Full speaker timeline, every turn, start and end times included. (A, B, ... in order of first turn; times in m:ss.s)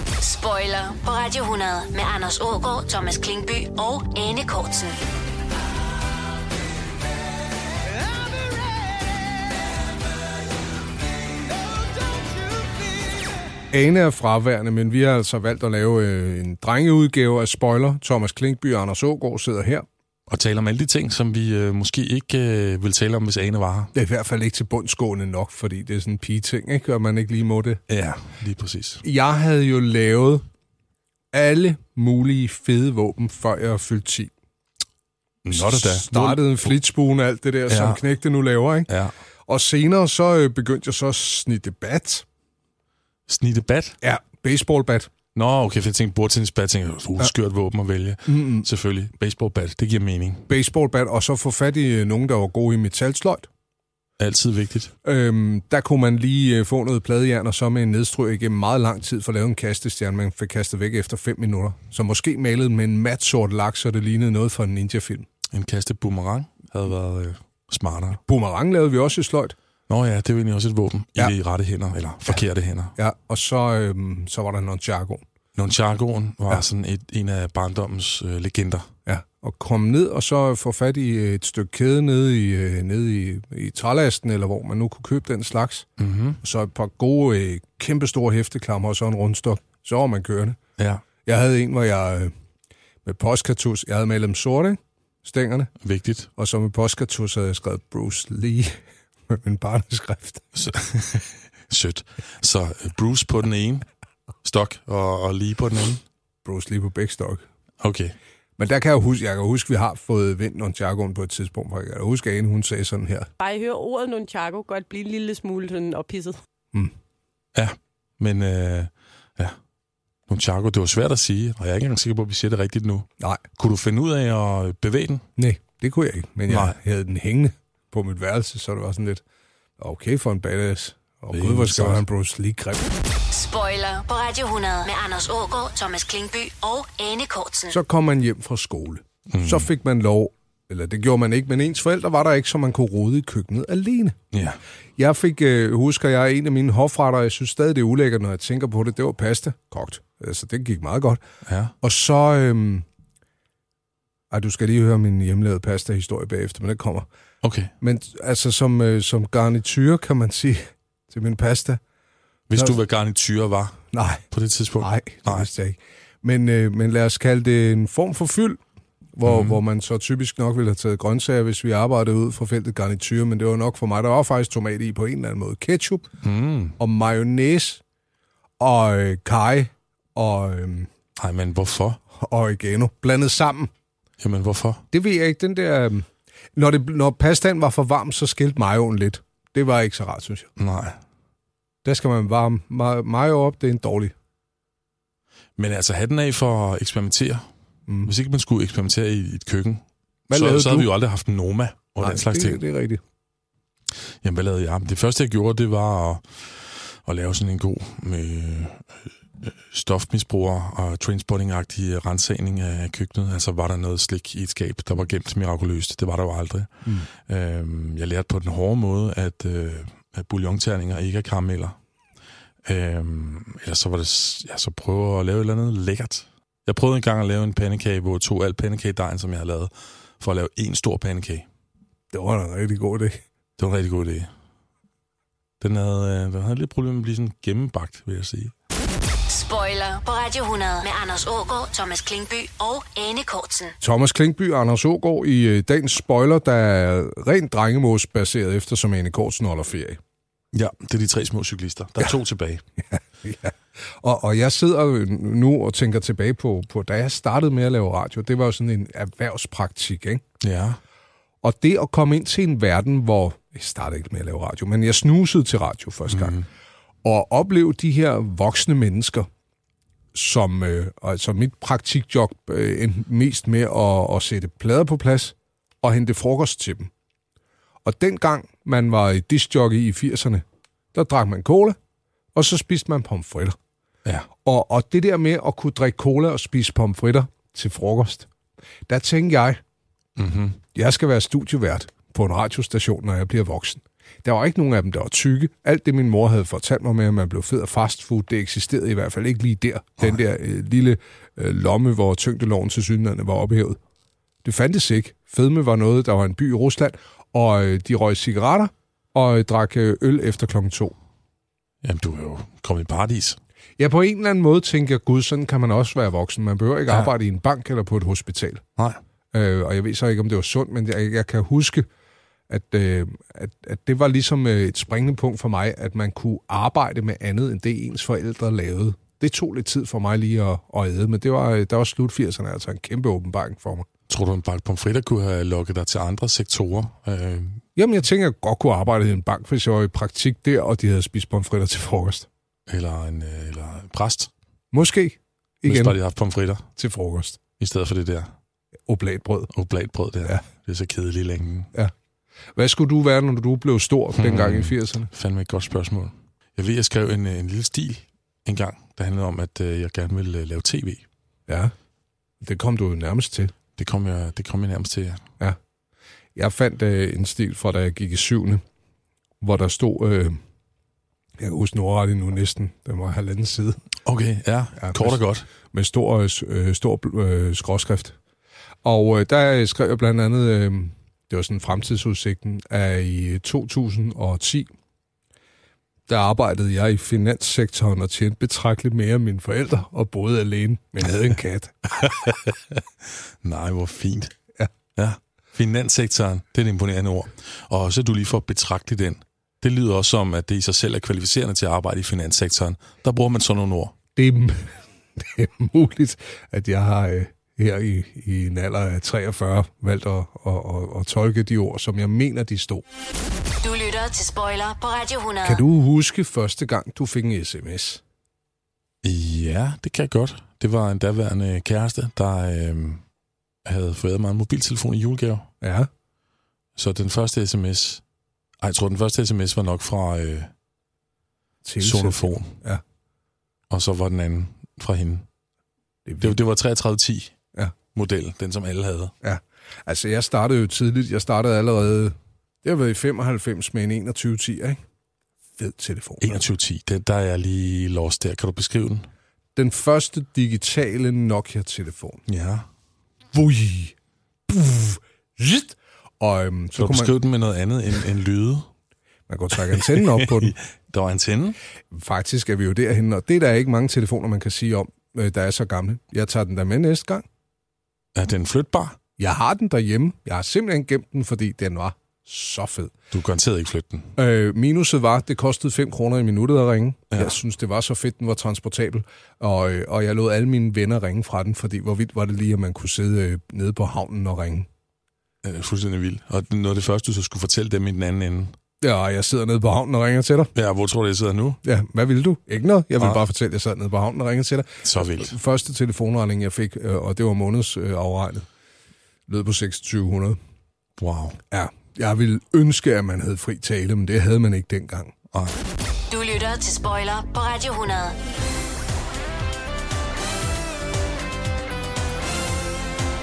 0:00.2-0:05.0 A
0:13.7-0:19.8 B
0:20.3-0:23.9 C
0:23.9-0:27.8 B
0:27.9-0:29.0 C
0:29.0-0:30.4 B
0:31.3-0:34.3 B
0:35.4-0:36.8 C
0:35.5-0:38.9 B
0:37.7-0:38.0 C
0:38.9-0:39.1 C
0:39.5-0:42.2 B
0:43.3-0:44.0 C
0:44.0-0:45.1 B
0:45.4-0:50.5 C
0:48.3-0:48.7 B
0:50.5-0:53.5 B
0:54.2-0:54.9 C
0:55.0-1:05.3 B
1:05.5-1:08.2 C
1:08.2-1:09.6 B
1:09.9-1:13.0 C
1:13.0-1:15.2 B
1:15.6-1:18.9 C
1:19.1-1:25.9 B
1:26.0-1:26.4 C
1:26.4-1:30.6 B
1:30.8-1:31.0 C
1:31.2-1:32.3 B
1:33.0-1:35.7 B
1:35.8-1:36.3 C
1:36.4-1:38.8 B
1:39.3-1:40.5 B
1:40.6-1:43.8 C
1:44.4-1:46.0 C
1:46.4-1:47.4 B
1:47.8-1:48.2 C
1:48.6-1:53.3 B
1:54.3-1:56.3 D
1:57.5-1:59.6 C
2:00.3-2:05.3 C
2:05.4-2:09.2 B
2:06.5-2:06.8 C
2:09.8-2:12.9 B
2:11.3-2:12.0 C
2:13.3-2:17.8 A
2:17.7-2:24.2 B
2:19.3-2:19.7 C
2:24.3-2:24.6 C
2:25.0-2:31.2 B
2:31.4-2:31.8 C
2:31.8-2:32.8 B
2:34.3-2:37.1 B
2:37.4-2:37.7 C
2:37.8-2:41.8 B
2:42.5-2:45.5 C
2:43.9-2:44.2 B
2:44.8-2:48.6 B
2:49.2-2:56.0 B
2:49.2-2:49.6 C
2:56.2-2:56.8 C
2:56.8-2:57.8 B
2:58.6-3:00.9 B
3:01.2-3:02.0 C
3:02.1-3:03.7 B
3:04.2-3:04.8 C
3:04.9-3:10.5 B
3:10.6-3:11.0 C
3:11.8-3:14.1 B
3:15.6-3:17.5 C
3:17.9-3:18.1 B
3:18.0-3:22.6 C
3:20.3-3:20.9 B
3:22.0-3:23.0 B
3:24.2-3:41.8 C
3:42.7-3:51.5 C
3:52.1-3:53.2 B
3:53.6-3:54.3 C
3:55.6-3:58.5 C
3:59.3-4:03.8 A
4:03.8-4:10.0 B
4:10.5-4:12.6 C
4:12.9-4:20.2 B
4:20.4-4:20.8 C
4:21.4-4:26.4 B
4:26.1-4:26.5 C
4:27.0-4:29.3 B
4:30.1-4:36.9 B
4:37.8-4:41.8 B
4:42.3-4:43.6 B
4:44.4-4:48.3 B
4:48.9-4:49.6 B
4:50.2-4:50.6 C
4:50.7-5:03.8 B
5:04.4-5:11.0 B
5:11.8-5:13.4 C
5:13.8-5:18.6 B
5:19.3-5:21.9 B
5:22.5-5:33.9 B
5:34.1-5:37.6 C
5:37.8-5:42.3 B
5:42.7-5:44.3 C
5:44.7-5:46.0 B
5:45.6-5:46.7 C
5:46.8-5:47.4 B
5:47.6-5:48.3 C
5:48.9-5:49.5 B
5:49.5-5:51.7 C
5:52.6-5:55.1 B
5:54.2-6:01.0 C
6:01.5-6:01.7 B
6:02.4-6:03.5 B
6:03.8-6:05.2 C
6:06.4-6:08.6 B
6:09.4-6:10.4 B
6:11.4-6:13.8 B
6:14.0-6:15.5 C
6:14.8-6:18.2 B
6:18.8-6:24.7 B
6:26.1-6:32.2 B
6:32.0-6:32.8 C
6:33.4-6:34.3 C
6:35.0-6:44.0 C
6:44.2-6:52.8 B
6:53.6-6:55.6 A
6:55.4-6:58.0 B
6:59.0-7:03.0 C
7:03.6-7:05.5 C
7:05.6-7:05.9 B
7:06.8-7:08.0 C
7:08.6-7:10.5 C
7:11.6-7:12.8 B
7:11.8-7:12.5 C
7:13.7-7:15.3 C
7:16.1-7:16.4 B
7:16.2-7:17.4 C
7:17.9-7:19.1 C
7:19.2-7:24.8 B
7:25.6-7:26.4 B
7:26.2-7:29.1 C
7:29.6-7:32.2 B
7:32.3-7:32.7 C
7:33.3-7:34.0 B
7:34.5-7:37.2 B
7:36.8-7:38.7 C
7:39.3-7:40.6 B
7:39.7-7:41.6 C
7:41.9-7:47.3 B
7:48.2-7:49.0 C
7:49.2-7:52.9 B
7:53.1-7:54.1 C
7:54.2-8:04.7 B
7:57.1-7:57.4 C
8:05.4-8:08.6 C
8:08.8-8:10.5 B
8:10.6-8:11.6 C
8:11.6-8:18.5 B
8:14.8-8:15.4 C
8:19.3-8:20.4 B
8:21.0-8:21.4 C
8:21.5-8:25.1 B
8:25.3-8:25.6 C
8:26.1-8:28.2 A